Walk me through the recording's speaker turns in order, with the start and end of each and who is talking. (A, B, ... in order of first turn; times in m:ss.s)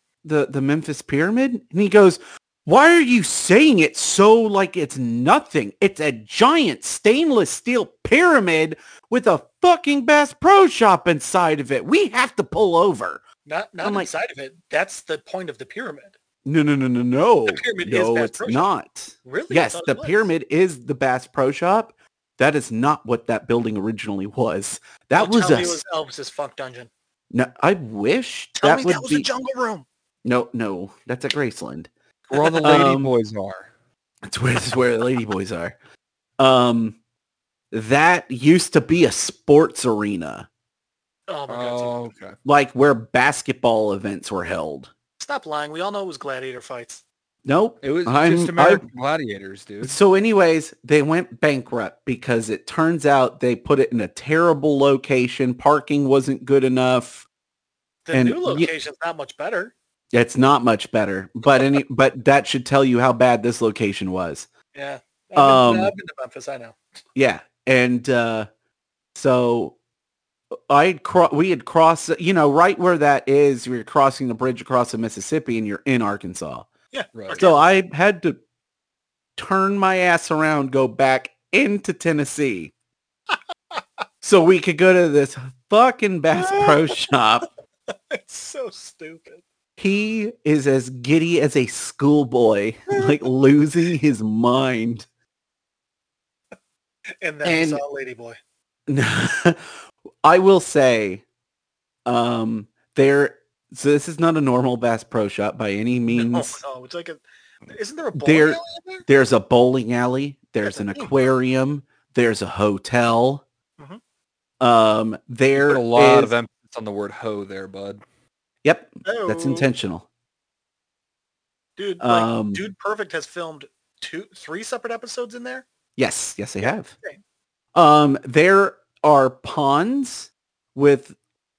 0:00.2-0:13.2 A
0:13.4-0:16.2 B
0:13.8-0:14.1 A
0:16.4-0:25.8 A
0:17.5-0:18.7 B
0:19.2-0:20.3 B
0:25.2-0:26.9 B
0:27.3-0:29.3 A
0:28.6-0:29.9 B
0:30.2-0:31.9 A
0:32.3-0:33.7 C
0:32.6-0:33.1 A
0:34.2-0:35.7 A
0:36.4-0:37.0 A
0:37.7-0:40.5 A
0:41.3-0:42.0 B
0:41.5-0:42.4 C
0:42.4-0:44.9 A
0:45.2-0:47.0 B
0:47.4-0:48.8 A
0:47.8-0:50.0 C
0:49.8-0:57.3 A
0:58.0-0:59.7 B
0:58.1-0:58.7 A
1:00.1-1:04.5 A
1:04.7-1:06.8 B
1:05.4-1:05.9 A
1:07.1-1:08.5 A
1:09.1-1:09.8 A
1:10.5-1:16.7 A
1:16.9-1:17.7 B
1:17.2-1:17.4 C
1:17.3-1:18.4 A
1:19.4-1:22.7 A
1:23.3-1:23.8 B
1:24.2-1:27.5 A
1:26.4-1:26.9 B
1:28.1-1:29.4 B
1:29.8-1:35.0 A
1:37.2-1:38.4 B
1:37.4-1:37.8 A
1:38.9-1:39.7 A
1:40.2-1:41.2 A
1:42.0-1:46.6 A
1:46.1-1:49.0 B
1:48.2-1:53.4 A
1:50.6-1:51.1 B
1:54.6-1:56.3 A
1:55.6-1:58.0 C
1:58.6-2:00.0 A
1:59.0-1:59.7 B
2:01.8-2:05.7 B
2:02.0-2:02.6 A
2:06.0-2:06.9 A
2:06.6-2:07.2 B
2:07.7-2:11.1 A